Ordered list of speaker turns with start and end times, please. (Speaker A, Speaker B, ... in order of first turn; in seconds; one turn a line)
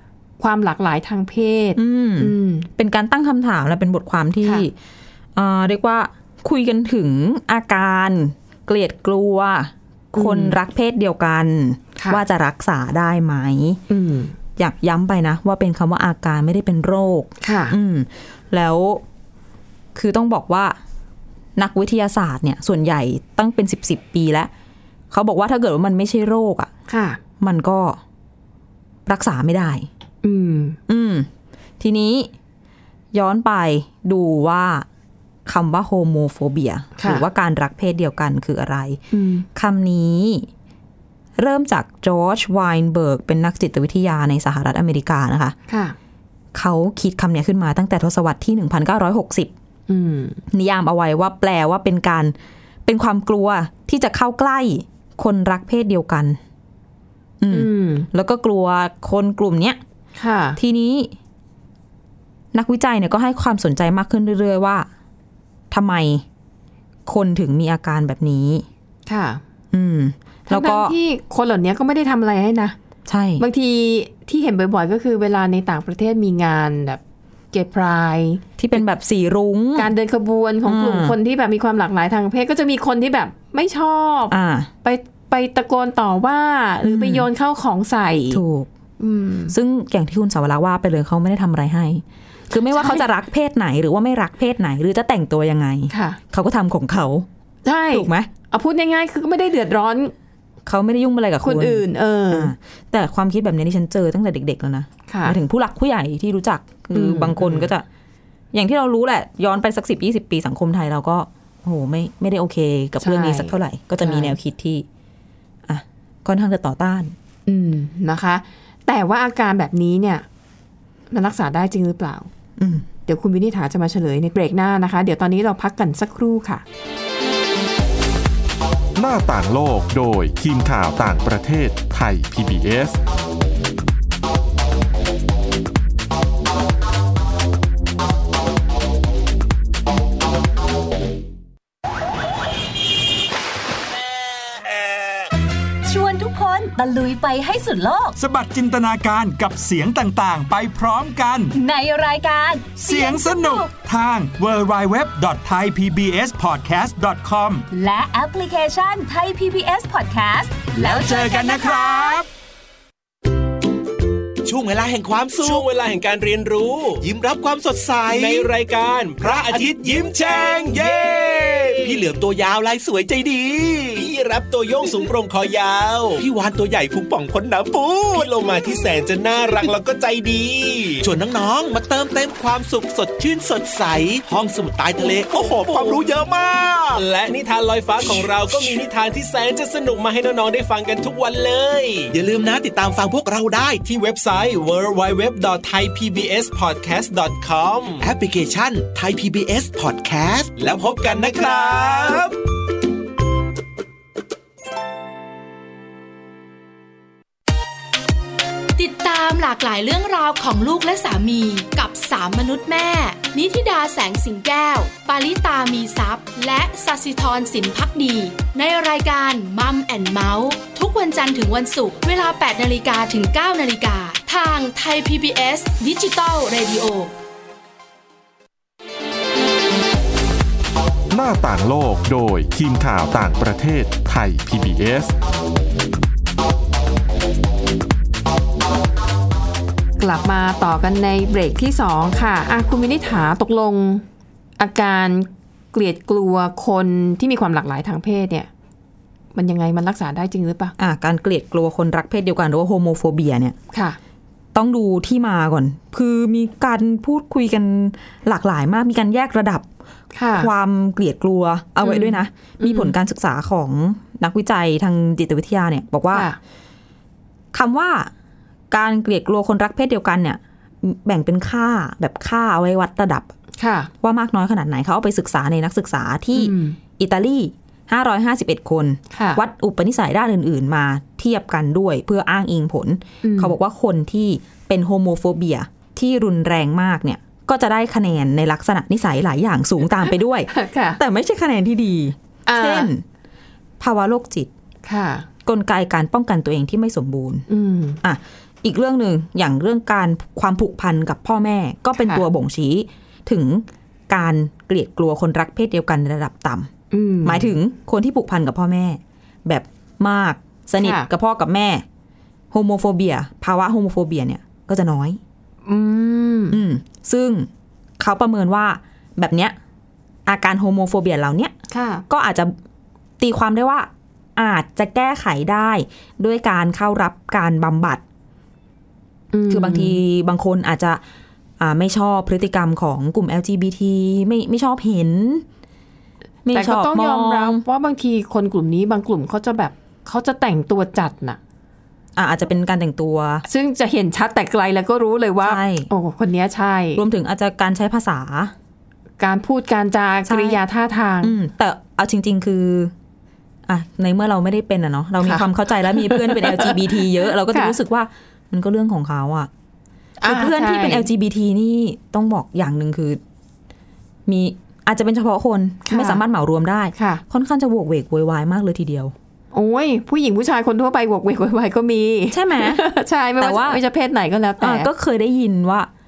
Speaker A: 0.4-2.7
Speaker B: 1.8-4.7
Speaker B: 5.3-13.8
Speaker A: 10.1-10.6
Speaker A: 13.9-14.3
Speaker B: 14.6-19.0
Speaker A: 17.4-17.8
Speaker B: 19.9-20.8
Speaker B: 21.6-24.5
Speaker B: 25.1-26.7
Speaker A: 26.9-27.2
Speaker B: 27.4-28.0
Speaker B: 29.1-29.9
Speaker A: 30.2-30.8
Speaker B: 30.9-31.3
Speaker B: 31.8-32.3
Speaker B: 33.1-34.9
Speaker B: 35.5-39.0
Speaker A: 37.0-37.3
Speaker A: 39.1-39.5
Speaker B: 39.5-40.5
Speaker B: 41.4-45.6
Speaker A: 45.7-46.0
Speaker B: 46.5-49.5
Speaker A: 49.9-50.4
Speaker B: 50.5-52.3
Speaker B: 52.9-56.4
Speaker B: 57.4-59.8
Speaker A: 57.5-58.1
Speaker A: 60.2-60.6
Speaker B: 60.6-61.1
Speaker B: 62.5-64.9
Speaker B: 65.7-66.2
Speaker B: 67.1-68.7
Speaker A: 69.1-69.4
Speaker B: 69.7-71.0
Speaker A: 70.5-72.8
Speaker B: 73.1-73.4
Speaker A: 73.4-77.0
Speaker A: 77.5-78.4
Speaker B: 78.6-79.9
Speaker A: 79.8-88.4
Speaker B: 80.7-81.2
Speaker B: 84.3-84.7
Speaker B: 86.8-87.3
Speaker B: 88.3-88.7
Speaker A: 89.0-89.5
Speaker B: 89.5-97.3
Speaker A: 92.6-93.0
Speaker A: 95.9-96.2
Speaker A: 97.7-100.1
Speaker B: 97.9-98.3
Speaker B: 100.7-107.8
Speaker A: 101.4-102.5
Speaker A: 105.1-105.4
Speaker A: 106.9-107.7
Speaker B: 108.5-114.9
Speaker A: 113.0-114.3
Speaker B: 115.7-117.2
Speaker A: 117.5-120.3
Speaker A: 121.1-122.3
Speaker B: 122.6-122.9
Speaker A: 123.1-126.6
Speaker C: 129.0-133.0
Speaker D: 145.8-148.2
Speaker E: 148.2-151.6
Speaker D: 151.5-153.7
Speaker E: 152.8-157.7
Speaker D: 157.7-162.2
Speaker E: 160.7-162.3
Speaker F: 164.5-165.6
Speaker G: 165.3-167.1
Speaker F: 167.1-168.3
Speaker G: 168.1-172.0
Speaker F: 171.9-173.9
Speaker G: 173.9-176.3
Speaker F: 176.2-178.3
Speaker G: 178.1-181.1
Speaker F: 181.0-186.8
Speaker G: 185.0-186.1
Speaker G: 186.9-192.2
Speaker F: 192.1-193.8
Speaker G: 193.8-198.1
Speaker F: 198.4-200.3
Speaker G: 200.6-202.3
Speaker H: 208.8-227.1
Speaker C: 231.1-235.2
Speaker A: 240.0-244.1
Speaker A: 244.6-248.5
Speaker A: 249.3-250.7
Speaker B: 250.8-253.6
Speaker A: 253.7-254.0
Speaker B: 254.5-259.7
Speaker A: 260.1-260.5
Speaker B: 260.3-266.3
Speaker A: 261.8-262.9
Speaker A: 266.1-266.4
Speaker B: 267.5-268.1
Speaker B: 268.7-273.3
Speaker A: 273.6-273.9
Speaker B: 274.0-293.0
Speaker A: 276.4-276.8
Speaker A: 279.1-279.4
Speaker A: 283.2-283.6
Speaker A: 290.5-291.0
Speaker A: 292.5-292.9
Speaker B: 293.8-294.5
Speaker A: 294.9-295.3
Speaker B: 295.5-297.5
Speaker A: 297.5-298.0
Speaker B: 298.0-306.7
Speaker A: 302.0-302.2
Speaker A: 306.9-307.5
Speaker B: 307.2-311.9
Speaker A: 310.8-311.1
Speaker B: 312.5-315.2
Speaker A: 315.7-316.6
Speaker B: 316.5-319.6
Speaker B: 320.3-321.5
Speaker A: 321.7-322.0
Speaker B: 322.1-322.5
Speaker B: 323.2-328.0
Speaker A: 329.3-330.0
Speaker B: 329.5-331.0
Speaker B: 331.6-335.4
Speaker B: 336.4-337.6
Speaker A: 336.5-341.4
Speaker B: 342.2-343.4
Speaker A: 343.5-347.0
Speaker B: 345.4-345.9
Speaker B: 347.0-348.5
Speaker A: 349.2-351.4
Speaker B: 350.3-350.6
Speaker B: 351.2-352.9
Speaker B: 353.7-359.5
Speaker A: 355.2-357.8
Speaker A: 360.2-361.1
Speaker B: 360.2-363.2
Speaker B: 364.3-369.1
Speaker A: 365.9-366.2
Speaker A: 367.0-367.2
Speaker A: 369.5-374.9
Speaker B: 372.3-372.9
Speaker B: 373.4-373.8
Speaker B: 374.6-375.9